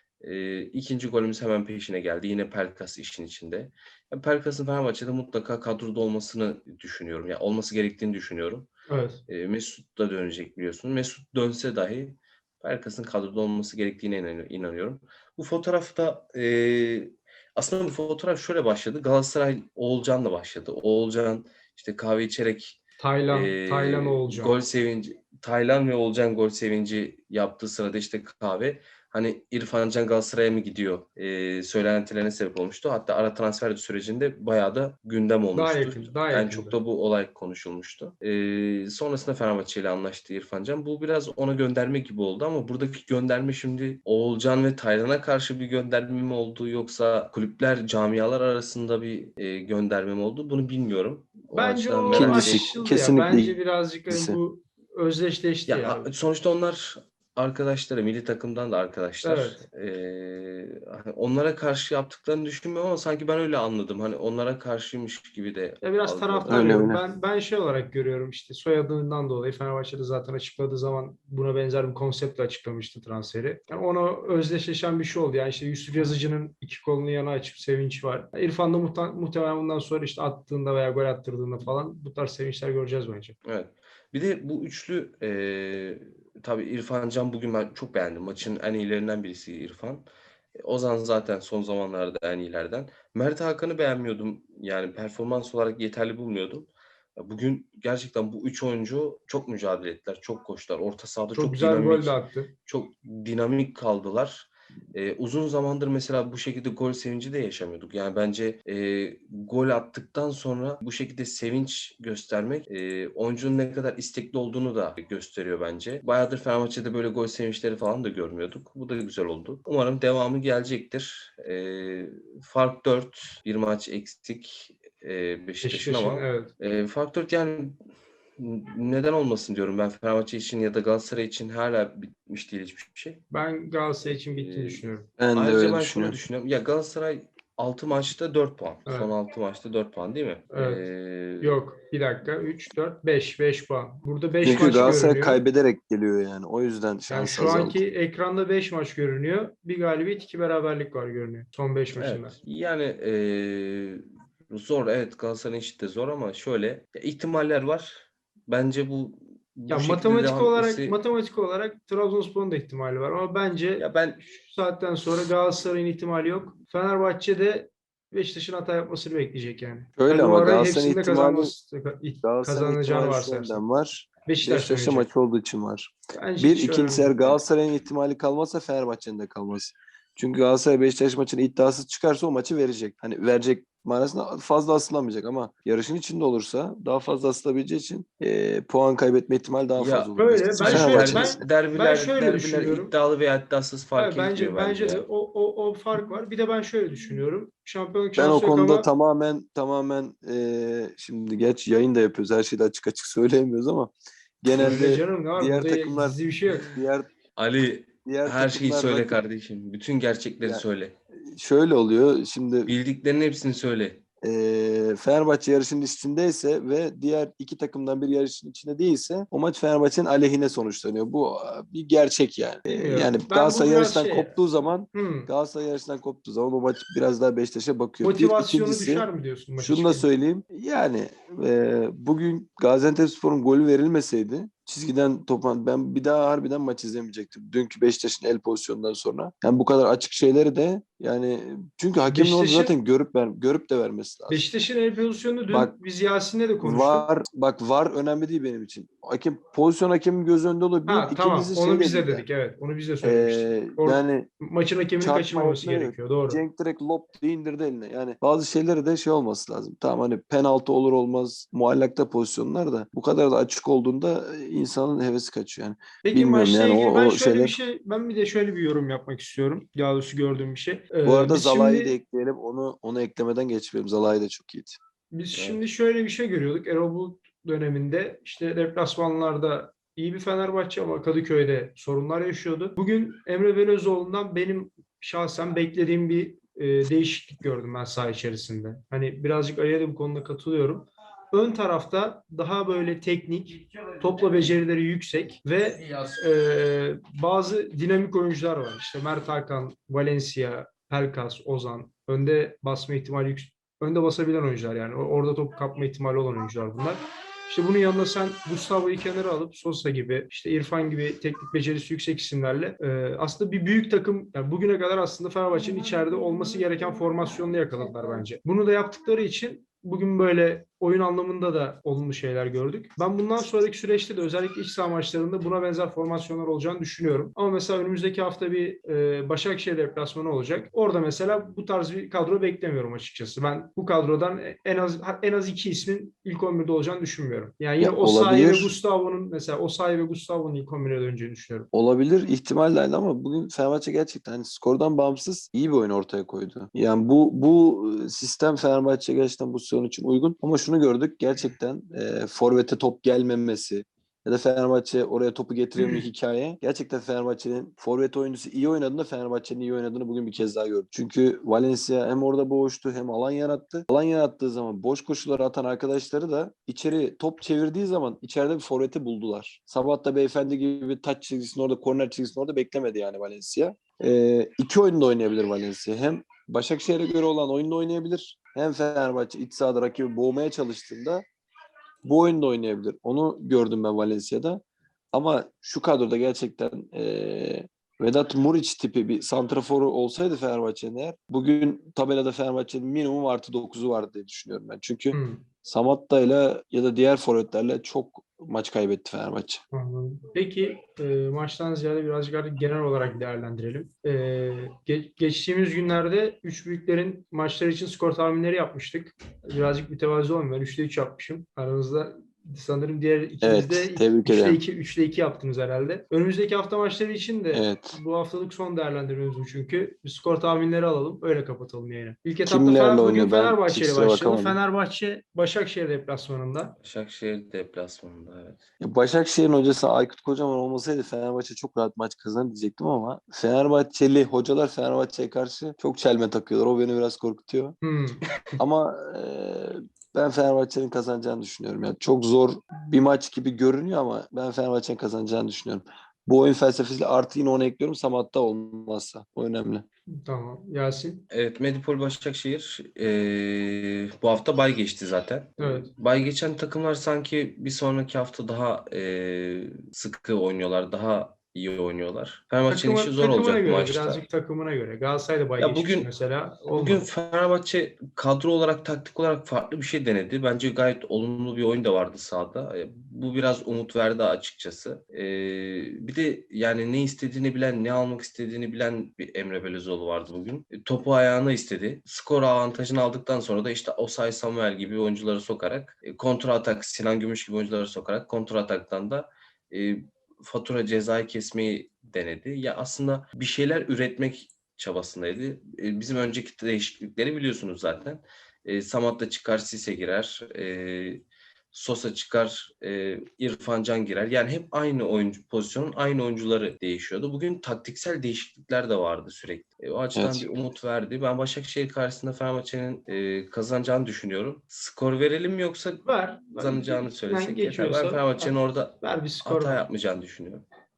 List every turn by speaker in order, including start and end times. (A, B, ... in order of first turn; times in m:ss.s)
0:00.2-0:08.7 A
0:08.9-0:09.2 B
0:09.3-0:52.7 A
0:23.0-0:24.6 B
0:35.5-0:36.8 B
0:51.5-0:56.1 B
0:52.1-0:53.6 C
0:54.1-0:54.4 C
0:55.7-1:06.8 A
0:59.2-0:59.6 B
1:05.8-1:23.4 B
1:06.5-1:07.0 C
1:23.4-2:07.8 A
1:41.3-1:42.5 B
2:05.6-2:06.5 B
2:08.4-2:13.2 A
2:13.3-2:15.1 B
2:14.0-2:21.6 A
2:15.2-2:16.2 C
2:18.9-2:19.1 B
2:20.5-2:20.8 B
2:21.4-2:25.4 B
2:24.4-2:27.8 C
2:27.1-2:32.4 B
2:31.9-2:41.0 A
2:39.7-2:53.6 B
2:43.8-2:44.2 A
2:50.0-2:51.5 C
2:52.2-3:11.4 C
2:54.3-2:55.1 B
2:56.2-2:57.4 B
3:09.8-3:15.0 A
3:10.2-3:12.9 B
3:14.0-3:18.9 B
3:18.2-3:27.1 C
3:24.5-3:26.9 B
3:27.4-3:31.0 A
3:28.1-3:29.2 C
3:31.3-3:32.8 C
3:32.7-3:34.0 A
3:34.2-3:49.1 C
3:42.7-3:44.4 B
3:44.9-3:45.3 B
3:48.0-3:50.1 B
3:49.6-4:04.4 C
4:02.1-4:02.7 B
4:04.3-4:07.1 B
4:05.5-4:05.8 C
4:06.6-4:12.2 C
4:10.9-4:16.4 B
4:13.0-4:14.3 C
4:15.0-4:27.6 C
4:26.0-4:32.0 B
4:31.0-4:34.8 C
4:35.1-5:41.7 B
4:35.3-4:35.6 A
5:37.8-5:38.7 C
5:41.7-6:21.2 C
5:55.8-5:56.0 B
6:22.0-6:24.6 C
6:25.1-6:39.6 C
6:35.1-6:35.4 B
6:39.7-7:06.8 B
6:53.4-6:54.6 C
6:57.5-6:58.0 C
7:02.4-7:04.6 C
7:06.8-7:08.6 A
7:08.8-7:17.8 C
7:17.8-7:18.2 B
7:18.6-7:29.8 C
7:30.3-7:31.2 B
7:31.3-7:44.2 A
7:35.6-7:35.9 B
7:42.7-7:47.1 B
7:45.6-7:46.1 A
7:46.7-8:40.6 A
8:30.2-8:30.5 C
8:36.0-8:39.8 B